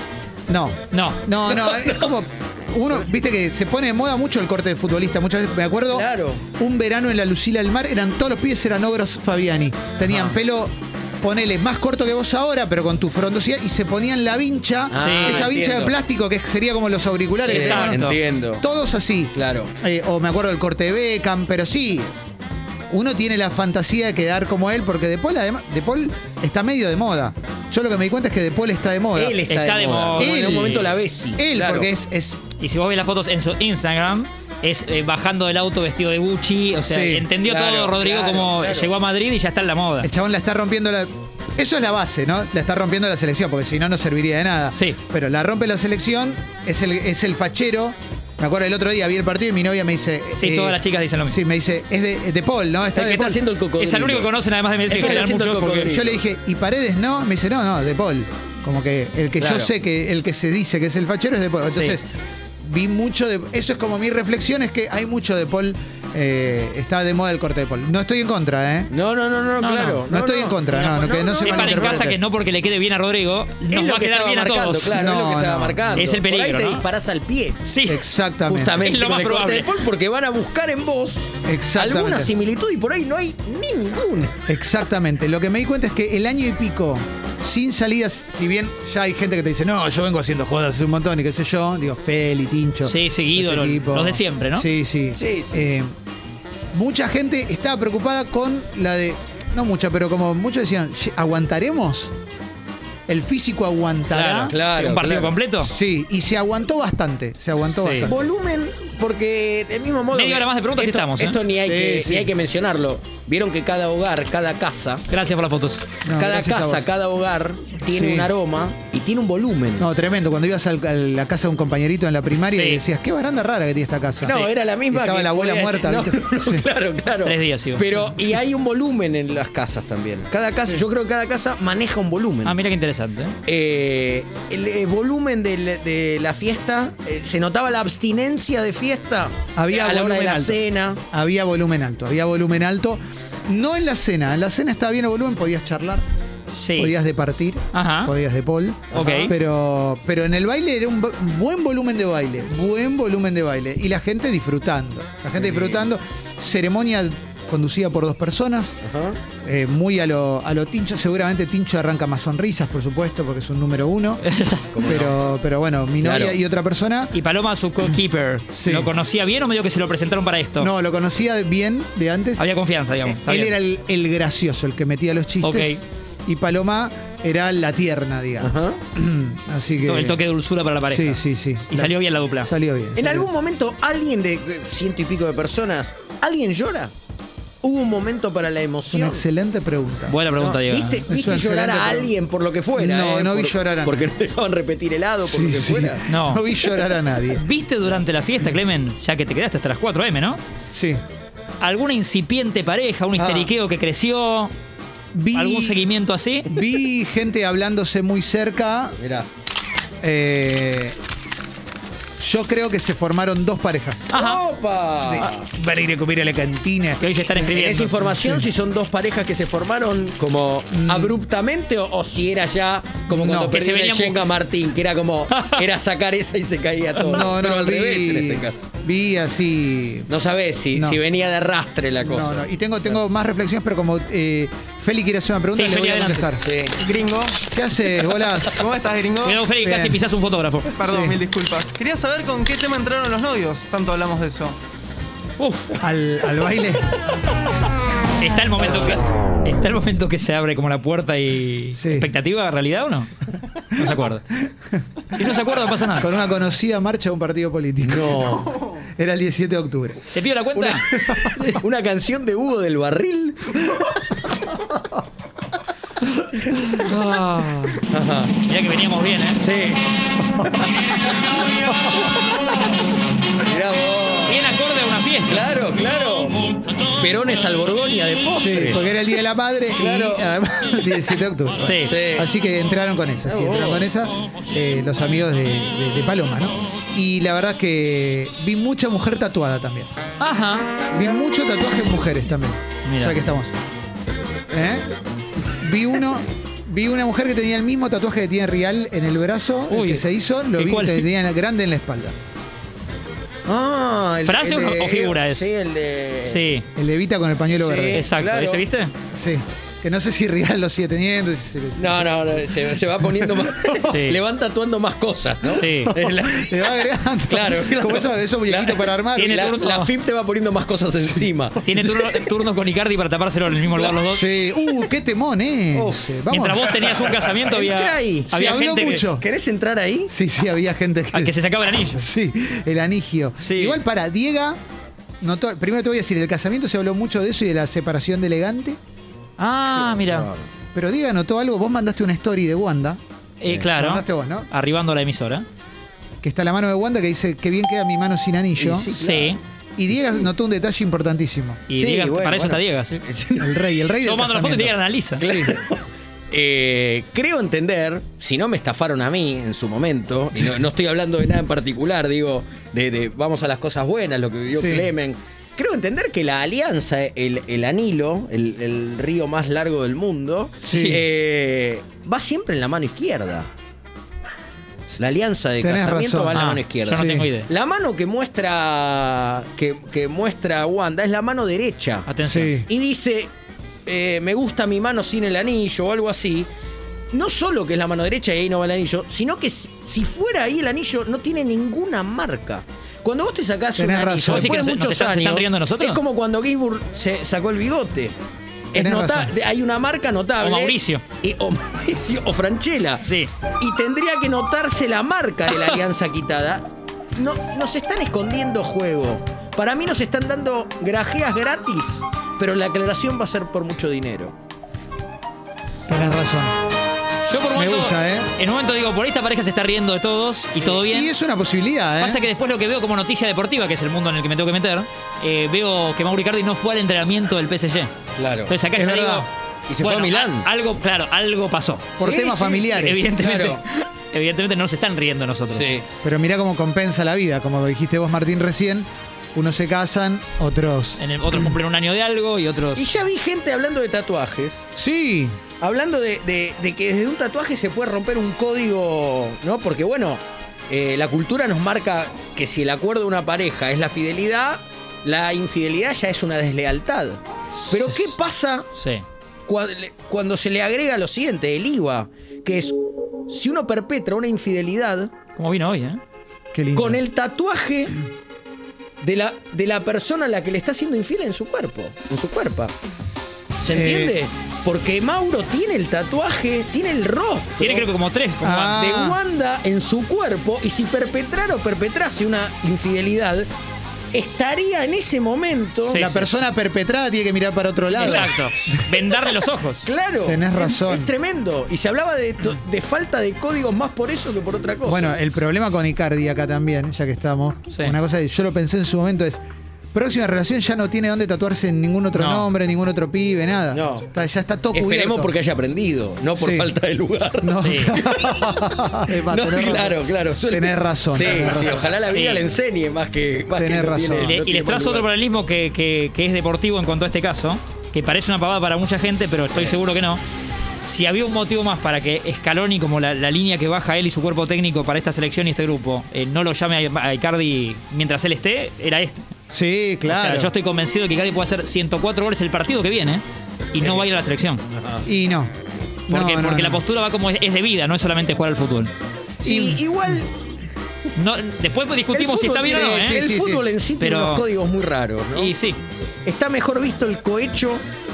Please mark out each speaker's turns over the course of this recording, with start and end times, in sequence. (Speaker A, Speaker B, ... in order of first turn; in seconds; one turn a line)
Speaker A: 0.5-22.1
Speaker B: 0.9-1.2
Speaker C: 1.5-2.1
Speaker C: 5.9-6.4
Speaker C: 14.9-15.9
Speaker B: 14.9-15.5
Speaker C: 17.4-18.6
Speaker B: 17.4-18.2
Speaker C: 19.3-19.7
Speaker A: 22.9-29.4
Speaker C: 29.1-31.9
Speaker B: 29.5-30.8
Speaker A: 30.1-32.4
Speaker B: 32.6-40.1
Speaker A: 36.9-37.3
Speaker C: 37.4-38.9
Speaker A: 40.0-53.4
Speaker B: 44.7-45.0
Speaker B: 50.4-51.4
Speaker C: 52.9-54.3
Speaker B: 53.8-55.9
Speaker C: 54.9-56.2
Speaker A: 54.9-62.1
Speaker C: 59.4-59.7
Speaker C: 61.7-62.0
Speaker A: 62.6-68.9
Speaker C: 68.9-72.0
Speaker B: 69.6-70.0
Speaker A: 70.1-72.2
Speaker B: 71.4-75.0
Speaker C: 73.7-77.6
Speaker A: 74.9-76.0
Speaker B: 76.0-76.8
Speaker B: 77.6-78.0
Speaker A: 77.8-78.9
Speaker C: 78.5-84.4
Speaker B: 78.8-79.7
Speaker A: 81.4-82.3
Speaker A: 84.5-95.9
Speaker B: 92.8-94.7
Speaker C: 95.2-95.7
Speaker A: 96.7-102.1
Speaker A: 103.1-104.5
Speaker B: 104.1-105.7
Speaker C: 104.4-105.3
Speaker A: 105.6-108.2
Speaker B: 107.7-108.1
Speaker C: 108.0-115.0
Speaker B: 110.1-111.4
Speaker A: 111.6-112.3
Speaker B: 115.1-115.9
Speaker A: 116.0-116.9
Speaker C: 116.2-119.9
Speaker A: 117.8-118.3
Speaker A: 119.8-126.7
Speaker B: 122.5-122.8
Speaker C: 124.2-132.6
Speaker B: 124.3-124.5
Speaker B: 127.2-128.1
Speaker B: 132.4-133.3
Speaker C: 133.4-141.0
Speaker A: 139.6-146.0
Speaker B: 146.5-146.9
Speaker A: 146.8-158.8
Speaker B: 147.7-148.1
Speaker C: 148.9-149.3
Speaker B: 148.9-149.3
Speaker C: 155.4-155.8
Speaker C: 158.8-159.2
Speaker A: 159.4-164.2
Speaker B: 164.2-164.8
Speaker C: 164.7-165.1
Speaker A: 164.8-167.1
Speaker C: 166.0-166.3
Speaker B: 167.1-170.7
Speaker A: 168.5-168.9
Speaker A: 170.6-172.4
Speaker B: 172.4-173.6
Speaker A: 173.1-180.2
Speaker B: 175.4-175.8
Speaker C: 178.4-178.8
Speaker B: 179.8-182.5
Speaker A: 180.9-183.3
Speaker C: 182.9-186.9
Speaker C: 187.6-189.2
Speaker A: 188.9-190.2
Speaker B: 190.1-191.1
Speaker C: 190.3-196.0
Speaker A: 191.1-192.1
Speaker A: 192.8-194.1
Speaker A: 195.2-197.4
Speaker B: 196.1-196.4
Speaker B: 197.3-200.4
Speaker A: 200.7-201.0
Speaker B: 201.6-204.5
Speaker C: 203.2-203.5
Speaker A: 205.1-205.8
Speaker B: 205.3-206.6
Speaker A: 206.4-209.0
Speaker C: 209.0-209.3
Speaker A: 210.0-211.0
Speaker A: 212.2-214.2
Speaker B: 214.1-214.4
Speaker C: 214.1-215.5
Speaker A: 215.0-218.5
Speaker B: 217.0-218.0
Speaker C: 217.4-228.7
Speaker A: 220.7-221.2
Speaker A: 223.1-223.6
Speaker B: 223.4-224.2
Speaker B: 225.3-225.6
Speaker A: 227.0-230.1
Speaker C: 230.1-232.4
Speaker A: 230.7-231.0
Speaker A: 232.0-236.5
Speaker B: 235.5-236.3
Speaker C: 236.4-236.8
Speaker D: 236.8-237.4
Speaker A: 237.5-238.6
Speaker D: 238.5-239.4
Speaker B: 239.2-240.7
Speaker A: 239.6-240.0
Speaker D: 240.8-244.6
Speaker A: 240.8-241.2
Speaker B: 245.4-245.7
Speaker A: 245.8-246.8
Speaker B: 248.2-253.1
Speaker A: 251.7-252.1
Speaker B: 253.7-254.3
Speaker B: 255.1-256.1
Speaker A: 255.9-260.1
Speaker C: 257.8-258.5
Speaker B: 260.1-261.6
Speaker C: 260.5-263.9
Speaker A: 260.9-261.3
Speaker B: 266.7-267.8
Speaker C: 267.9-268.3
Speaker B: 268.4-269.4
Speaker C: 269.4-271.4
Speaker C: 272.0-272.3
Speaker C: 273.4-274.4
Speaker B: 274.2-275.5
Speaker C: 275.2-276.4
Speaker C: 276.9-278.8
Speaker A: 278.3-289.9
Speaker C: 279.7-280.3
Speaker B: 281.6-281.9
Speaker C: 281.8-282.3
Speaker C: 283.3-283.9
Speaker B: 290.2-290.7
Speaker A: 290.9-293.5
Speaker B: 292.8-293.2
Speaker A: 294.5-294.9
Speaker A: 295.6-302.1
Speaker B: 299.7-300.0
Speaker B: 300.6-301.1
Speaker C: 303.4-306.4
Speaker B: 304.2-305.5
Speaker B: 306.2-306.6
Speaker A: 306.7-308.1
Speaker C: 307.5-308.6
Speaker B: 307.9-308.9
Speaker A: 309.1-313.8
Speaker C: 311.8-316.7
Speaker B: 313.8-314.2
Speaker B: 315.5-315.9
Speaker A: 315.9-319.5
Speaker C: 317.3-321.6
Speaker B: 319.1-319.9
Speaker B: 321.6-324.3
Speaker A: 324.1-327.1
Speaker C: 325.7-326.1
Speaker B: 326.3-329.0
Speaker C: 327.4-330.1
Speaker A: 328.3-329.2
Speaker A: 330.1-331.3
Speaker B: 331.1-332.1
Speaker A: 331.9-334.6
Speaker B: 333.4-333.8
Speaker A: 335.2-338.8
Speaker B: 339.4-340.3
Speaker C: 339.7-340.4
Speaker A: 340.7-343.0
Speaker B: 343.4-345.4
Speaker A: 343.7-344.5
Speaker A: 346.2-348.9
Speaker C: 348.6-349.4
Speaker B: 349.0-349.4
Speaker A: 349.8-351.6
Speaker B: 351.7-353.0
Speaker C: 351.7-353.5
Speaker A: 353.4-355.6
Speaker B: 354.0-355.2
Speaker C: 355.2-373.5
Speaker A: 364.5-364.9
Speaker A: 370.6-371.0
Speaker B: 370.7-371.0
Speaker C: 375.0-382.1
Speaker A: 375.6-377.3
Speaker B: 376.3-377.5
Speaker B: 382.1-382.6
Speaker A: 382.2-382.7
Speaker C: 382.7-383.3
Speaker C: 383.9-386.5
Speaker C: 387.1-398.1
Speaker A: 393.8-394.6
Speaker B: 394.2-396.0
Speaker C: 398.7-403.1
Speaker A: 398.7-399.3
Speaker B: 400.4-401.0
Speaker B: 403.0-403.3
Speaker C: 403.6-414.3
Speaker A: 415.9-416.5
Speaker B: 417.2-421.1
Speaker A: 417.5-418.3
Speaker A: 420.7-422.2
Speaker B: 422.0-427.9
Speaker C: 428.2-428.5
Speaker B: 428.5-429.3
Speaker A: 428.7-429.3
Speaker C: 429.7-430.5
Speaker B: 429.8-435.7
Speaker A: 432.0-433.1
Speaker C: 432.0-433.6
Speaker C: 435.5-435.9
Speaker A: 436.0-441.0
Speaker B: 441.0-442.9
Speaker C: 442.7-444.7
Speaker A: 444.7-445.4
Speaker C: 445.6-458.7
Speaker B: 457.5-458.1
Speaker B: 458.7-459.0
Speaker C: 459.4-462.7
Speaker C: 463.3-465.1
Speaker B: 465.4-466.0
Speaker A: 466.5-467.0
Speaker C: 466.7-468.0
Speaker C: 469.0-472.7
Speaker C: 473.6-477.9
Speaker A: 473.7-474.2
Speaker B: 477.6-478.9
Speaker A: 478.4-479.2
Speaker C: 478.7-483.5
Speaker C: 484.1-486.1
Speaker B: 485.9-486.3
Speaker A: 485.9-488.8
Speaker B: 487.9-489.9
Speaker C: 489.8-495.2
Speaker A: 490.2-491.1
Speaker A: 494.9-499.4
Speaker A: 499.9-505.3
Speaker B: 502.1-502.5
Speaker C: 503.7-504.1
Speaker C: 504.7-508.6
Speaker A: 506.4-506.7
Speaker A: 507.4-511.9
Speaker B: 507.6-508.0
Speaker C: 509.1-515.1
Speaker B: 512.0-512.4
Speaker A: 513.5-514.4
Speaker B: 514.1-520.2
Speaker B: 520.8-529.3
Speaker A: 529.5-530.5
Speaker B: 530.1-533.2
Speaker B: 533.7-534.6
Speaker C: 534.7-535.0
Speaker A: 535.0-535.5
Speaker A: 536.1-536.8
Speaker B: 536.1-538.9
Speaker C: 539.4-540.3
Speaker A: 539.4-540.2
Speaker B: 541.1-543.2
Speaker C: 542.1-545.5
Speaker A: 542.6-543.6
Speaker B: 544.0-544.5
Speaker B: 545.3-545.8
Speaker C: 546.2-547.8